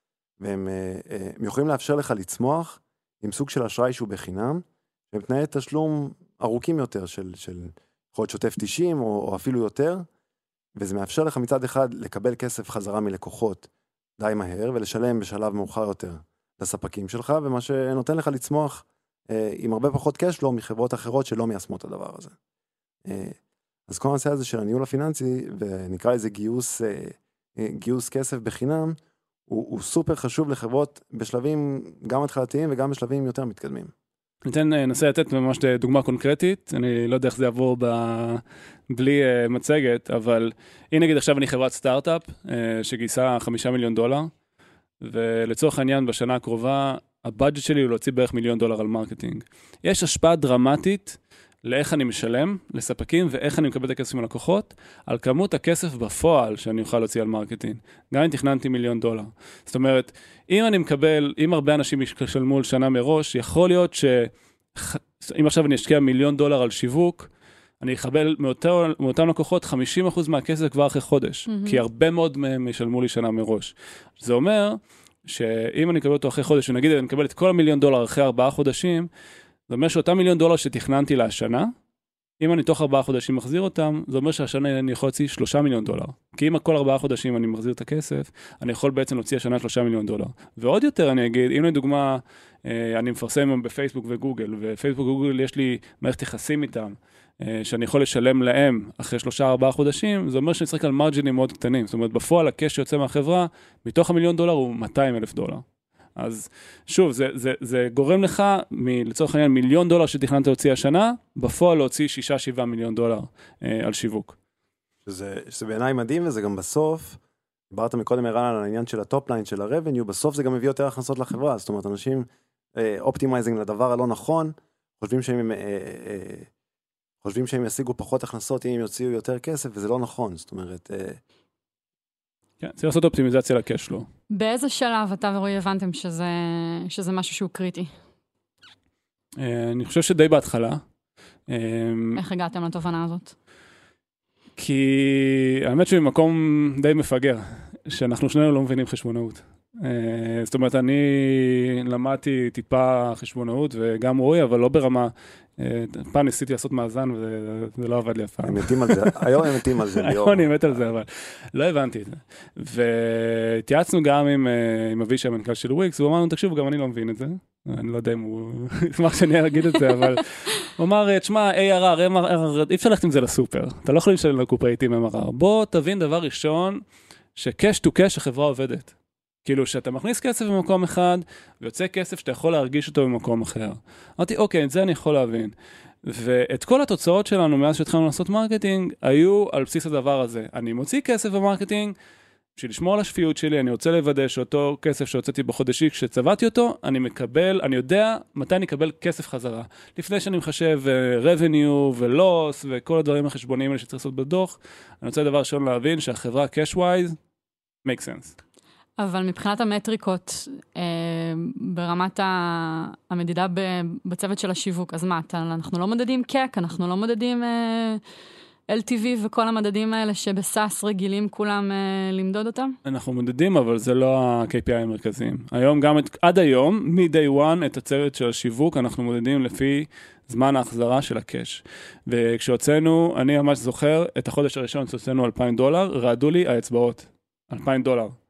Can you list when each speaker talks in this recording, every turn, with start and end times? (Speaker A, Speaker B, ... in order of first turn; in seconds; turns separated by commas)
Speaker A: 0.4-10.0, Speaker A: 10.8-22.3, Speaker A: 23.1-23.4, Speaker A: 23.9-29.0, Speaker A: 29.5-33.9, Speaker B: 34.4-44.3, Speaker B: 45.0-67.3, Speaker B: 67.8-79.1, Speaker C: 71.5-71.8, Speaker B: 79.7-81.7, Speaker B: 82.4-105.6, Speaker B: 106.2-114.3, Speaker A: 115.0-117.2, Speaker A: 117.7-126.5, Speaker A: 127.2-131.2, Speaker B: 132.6-134.1, Speaker C: 134.3-137.9, Speaker B: 139.4-140.8, Speaker B: 141.5-142.2, Speaker C: 142.2-143.3, Speaker B: 144.6-176.8, Speaker A: 158.4-160.8, Speaker B: 177.3-178.9, Speaker B: 179.4-191.9, Speaker B: 192.6-207.2, Speaker B: 207.8-208.3, Speaker C: 209.0-218.0, Speaker C: 218.7-222.7, Speaker B: 222.8-238.1